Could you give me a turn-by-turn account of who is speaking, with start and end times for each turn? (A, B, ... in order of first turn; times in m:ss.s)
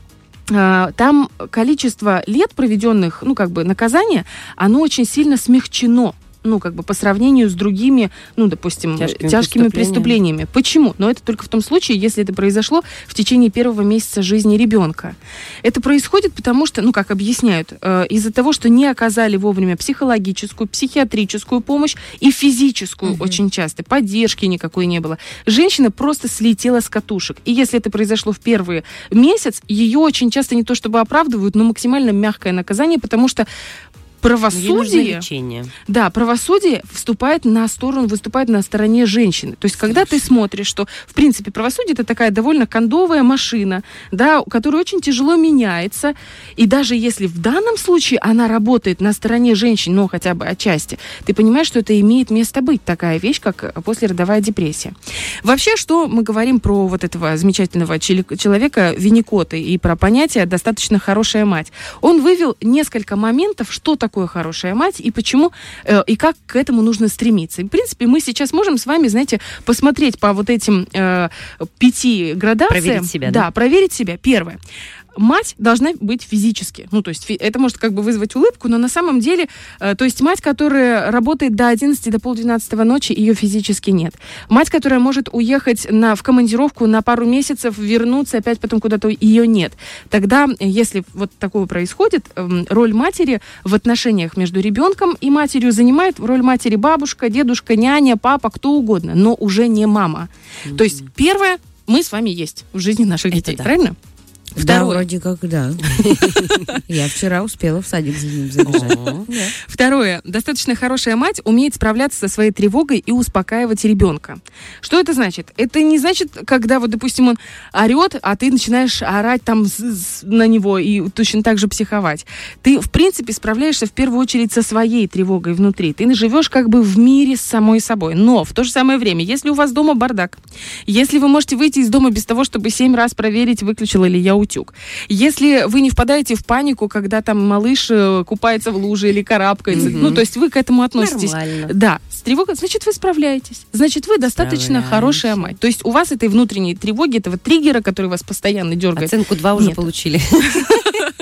0:00.5-0:33.5 A
0:09.0-0:10.2 B
0:23.0-0:23.4 C
0:34.2-0:35.2 A
0:34.5-0:35.7 B
0:35.9-1:14.6 A
0:39.8-0:40.2 B
1:12.7-1:13.5 B
1:15.2-1:44.0 A
1:40.7-1:41.0 B
1:43.3-1:43.7 B
1:44.6-1:49.5 C
1:44.6-1:45.0 A
1:46.0-1:46.6 B
1:48.7-1:49.2 B
1:49.6-2:29.9 A
2:19.7-2:20.2 B
2:21.0-2:21.7 B
2:24.4-2:25.6 B
2:29.0-2:30.8 B